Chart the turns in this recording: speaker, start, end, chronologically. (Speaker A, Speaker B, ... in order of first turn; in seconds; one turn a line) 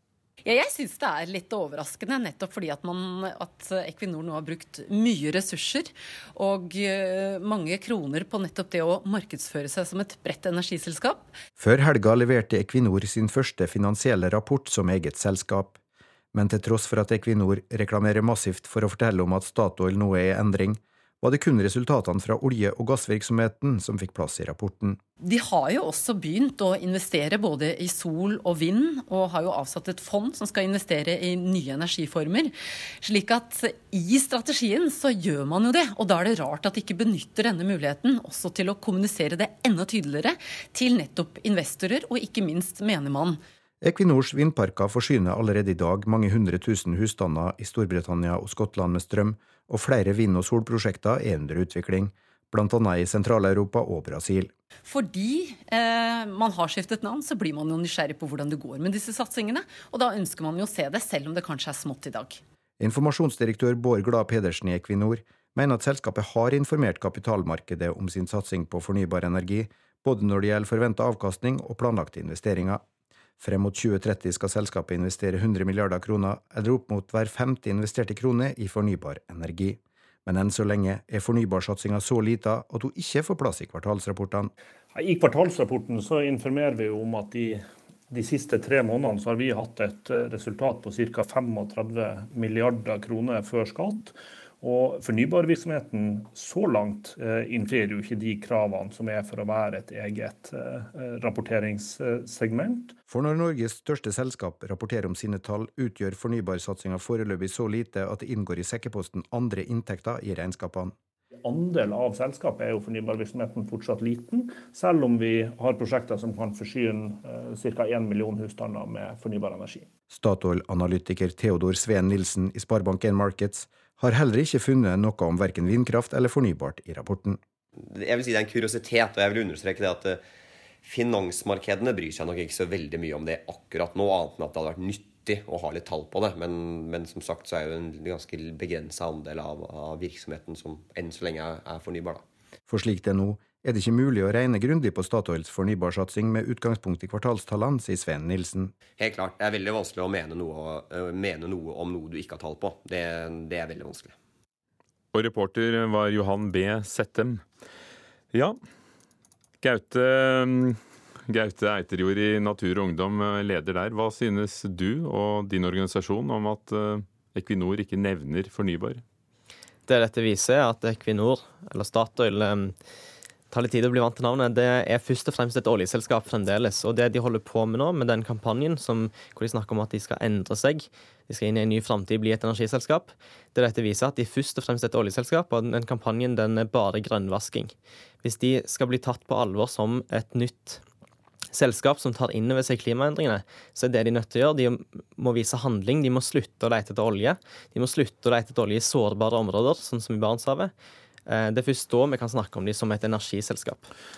Speaker A: 0.4-11.3
Speaker B: 11.6-15.8
Speaker B: 16.3-25.0
Speaker A: 25.2-43.4
Speaker B: 43.8-54.5
Speaker A: 54.8-62.4
Speaker B: 62.8-72.8
Speaker B: 73.4-84.5
Speaker C: 84.9-102.9
Speaker B: 103.1-110.9
Speaker C: 111.4-119.9
Speaker B: 120.1-127.4
Speaker D: 127.8-130.2
Speaker D: 130.8-142.2
Speaker B: 142.7-148.7
Speaker D: 149.0-154.1
Speaker E: 155.1-157.4
Speaker E: 158.3-158.6
Speaker E: 159.6-169.0
Speaker F: 169.9-172.8
Speaker F: 173.5-190.8
Speaker F: 191.5-200.7
Speaker F: 201.2-203.9